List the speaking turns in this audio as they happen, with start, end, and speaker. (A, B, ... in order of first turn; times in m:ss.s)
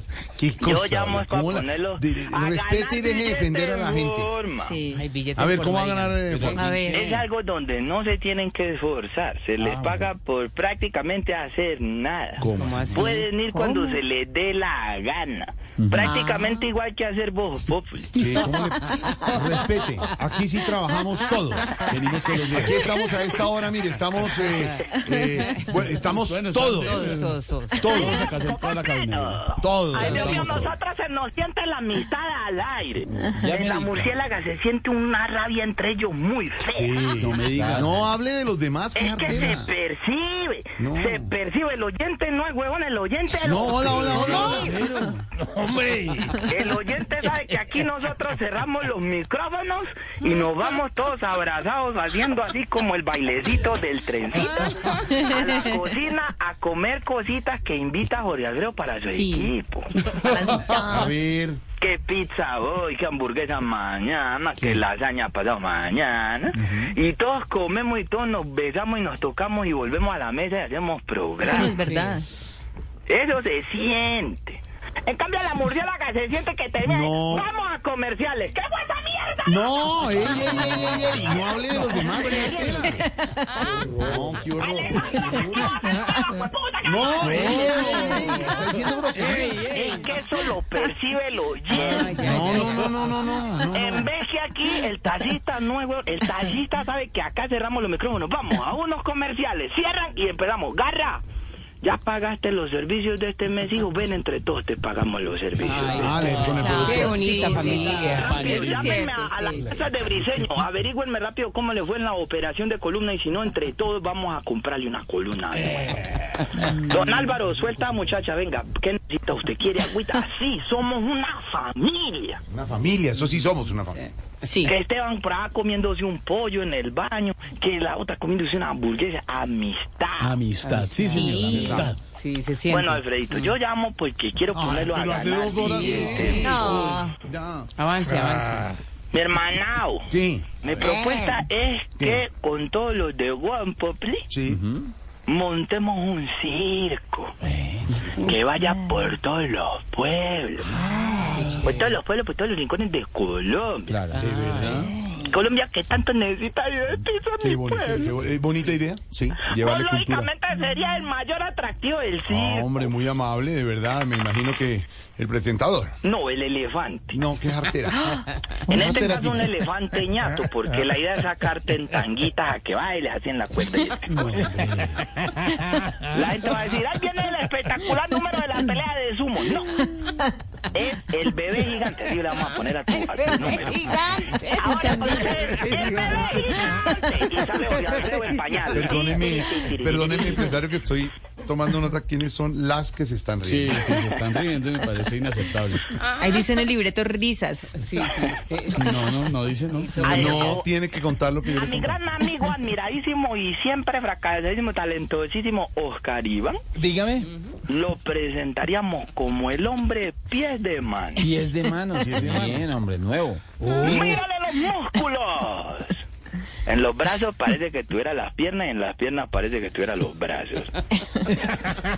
0:00.4-0:04.3 A
0:00.6-0:04.8 B
0:04.6-0:05.0 C
0:04.9-0:07.0 D
0:05.3-0:06.6 A
0:06.2-0:07.2 E
0:06.6-0:06.9 C
0:06.9-0:18.3 B
0:09.6-0:10.1 E
0:12.4-0:13.1 A
0:12.5-0:13.9 D
0:15.8-0:16.2 E
0:16.0-0:16.5 C
0:18.1-0:21.8 A
0:21.9-0:22.9 F
0:22.5-0:28.2 A
0:24.3-0:25.8 D
0:26.1-0:27.3 F
0:26.8-0:27.9 D
0:27.8-0:33.1 B
0:27.9-0:30.8 F
0:29.6-0:30.8 A
0:33.1-0:33.4 A
0:33.3-0:34.2 E
0:33.4-0:33.7 C
0:33.6-0:37.0 B
0:36.7-0:39.7 A
0:37.2-0:38.0 F
0:37.5-0:38.1 E
0:39.0-0:44.8 B
0:39.3-0:39.6 E
0:40.8-0:41.3 A
0:43.4-0:44.9 A
0:43.8-0:45.2 E
0:45.9-0:46.2 E
0:46.4-0:59.9 B
0:59.1-0:59.5 C
1:00.2-1:01.1 C
1:00.3-1:01.6 A
1:01.8-1:11.7 B
1:06.6-1:06.8 E
1:11.4-1:12.2 C
1:11.7-1:12.2 D
1:13.1-1:23.0 B
1:16.8-1:17.5 A
1:19.4-1:23.0 A
1:20.6-1:21.1 E
1:23.7-1:25.8 A
1:24.6-1:27.6 B
1:26.8-1:29.6 A
1:27.3-1:30.0 E
1:29.6-1:32.4 B
1:31.7-1:32.9 D
1:32.2-1:34.1 A
1:33.7-1:41.2 B
1:41.8-1:56.0 B
1:45.7-1:47.5 A
1:45.7-1:48.4 D
1:45.9-1:46.7 E
1:46.5-1:49.8 C
1:48.1-1:49.7 F
1:56.6-2:02.4 B
1:56.7-1:57.1 C
2:02.5-2:04.1 A
2:04.4-2:04.7 C
2:04.6-2:10.4 B
2:10.2-2:12.0 F
2:10.6-2:13.0 D
2:11.1-2:11.5 C
2:11.5-2:11.9 A
2:12.6-2:17.0 B
2:14.5-2:17.7 A
2:15.7-2:17.0 D
2:16.4-2:17.1 C
2:17.8-2:18.8 D
2:19.1-2:20.1 B
2:20.1-2:20.5 A
2:20.6-2:24.3 B
2:22.0-2:22.2 A
2:24.3-2:24.6 A
2:24.4-2:24.9 E
2:25.3-2:27.3 B
2:27.4-2:27.9 E
2:28.0-2:28.3 A
2:28.2-2:30.8 B
2:30.9-2:31.5 A
2:30.9-2:31.5 E
2:31.5-2:34.0 B
2:33.9-2:34.9 E
2:34.1-2:34.9 A
2:34.2-2:34.7 D
2:35.2-2:38.2 B
2:37.4-2:40.3 A
2:39.4-2:43.0 B
2:42.3-2:45.9 A
2:46.0-2:47.2 B
2:47.1-2:49.5 A
2:48.7-2:54.5 B
2:54.4-2:54.8 F
2:56.0-2:59.9 B
3:00.7-3:03.9 B
3:02.9-3:05.3 D
3:04.5-3:10.6 B
3:05.4-3:06.9 A
3:07.6-3:13.9 A
3:13.4-3:15.9 F
3:13.7-3:14.2 B
3:16.0-3:16.4 D
3:16.2-3:17.7 C
3:17.7-3:19.0 D
3:18.0-3:18.4 B
3:18.8-3:20.5 F
3:19.7-3:20.5 D
3:20.0-3:20.7 B
3:20.0-3:22.0 A
3:21.5-3:26.6 B
3:26.8-3:27.3 E
3:27.7-3:31.3 B
3:31.2-3:34.2 E
3:32.0-3:32.7 A
3:33.6-3:36.0 B
3:36.6-3:40.8 B